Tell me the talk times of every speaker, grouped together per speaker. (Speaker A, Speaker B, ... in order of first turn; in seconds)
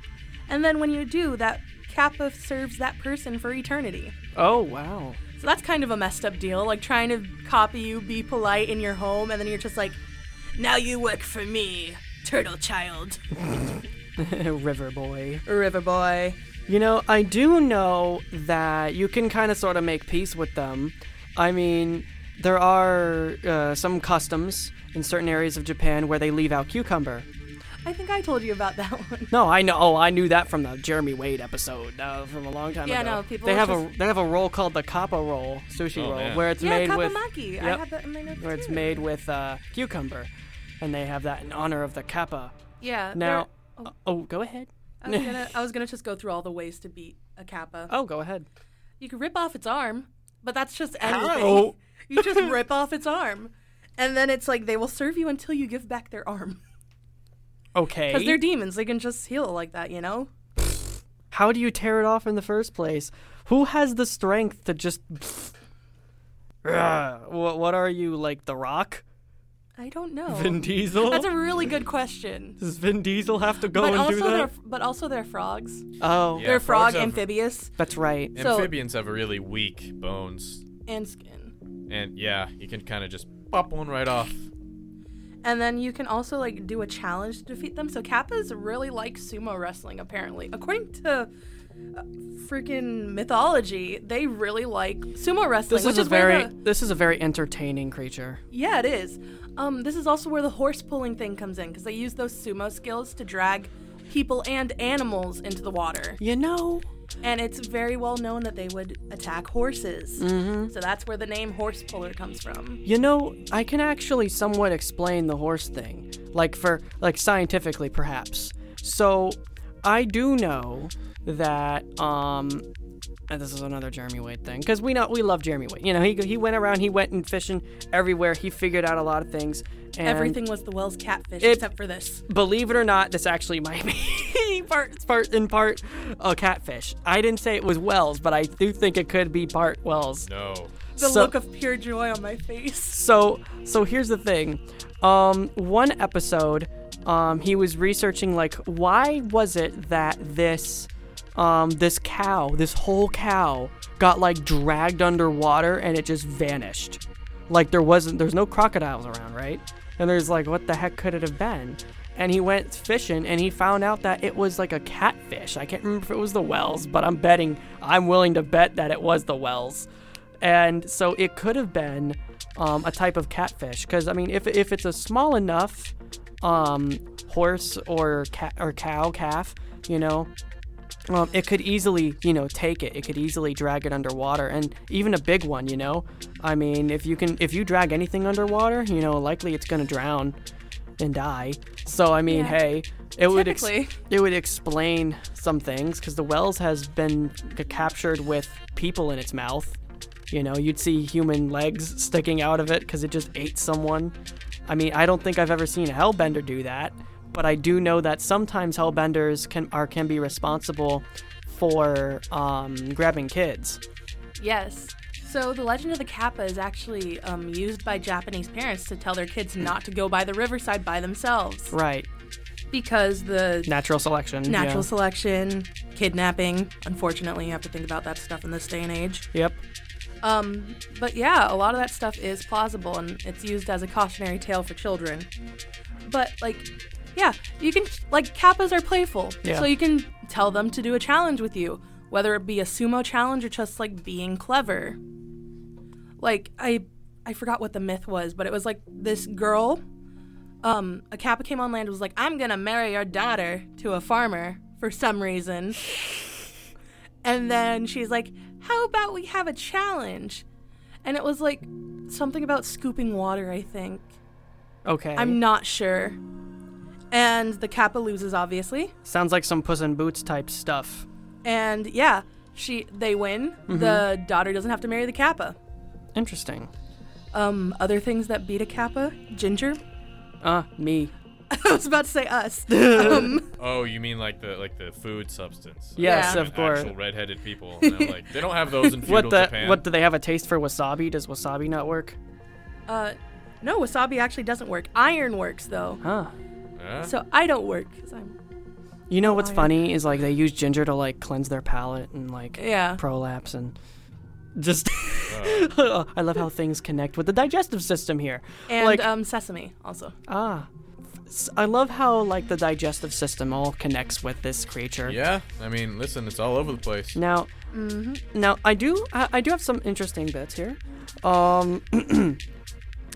Speaker A: 0.5-4.1, 5.4-10.0, 10.6-13.2, 15.4-16.4, 27.8-29.3, 32.9-33.9, 36.6-39.0, 42.8-43.9, 45.0-47.9, 49.0-56.6, 58.1-60.3, 69.8-72.6, 73.7-75.8, 76.4-77.7, 78.3-78.7, 80.9-81.5, 85.4-91.3, 91.9-96.5, 98.5-106.2, 107.2-112.8, 130.0-132.2, 141.0-143.0, 192.3-192.6, 193.3-193.9, 214.4-221.7, 222.7-223.7, 224.5-229.2, 230.2-235.3, 236.1-245.0, 246.2-249.8, 250.6-256.0, 257.2-260.4, 261.0-264.1, 265.1-266.2, 267.1-268.9, 271.4-275.6, 277.3-279.8, 281.5-283.5, 286.0-286.4, 287.8-288.2, 292.9-296.0, 297.0-298.4, 299.2-299.7, 302.6-303.0, 308.7-310.1, 317.7-318.2
Speaker B: 4.3-5.2, 13.3-15.4, 16.7-27.2, 29.3-37.8, 38.4-40.3, 40.8-42.5, 43.1-45.4, 47.9-48.5, 51.0-52.5, 57.7-58.4, 61.3-65.5, 66.6-69.0, 70.3-71.3, 72.6-74.5, 76.0-76.5, 77.8-78.3, 95.7-98.4, 106.2-106.9, 110.2-110.7, 112.8-122.7, 123.3-130.4, 132.3-140.3, 140.9-141.3, 142.9-169.9, 170.4-180.3, 181.1-190.3, 191.0-199.8, 200.3-204.1, 204.7-213.8, 221.7-222.1, 223.7-224.9, 229.3-229.6, 264.9-265.4, 269.0-271.1, 273.7-274.1, 276.1-276.7, 280.4-281.1, 282.7-283.4, 286.0-286.9, 289.0-292.2, 296.0-296.3, 299.1-303.7, 304.6-309.1, 310.3-310.7, 311.3-315.2, 317.1-317.5, 318.3-322.4
Speaker C: 35.9-36.5, 76.3-77.2, 78.3-80.6, 81.9-84.5, 140.2-140.8, 283.6-289.8, 296.8-297.1, 305.3-305.7, 315.0-317.2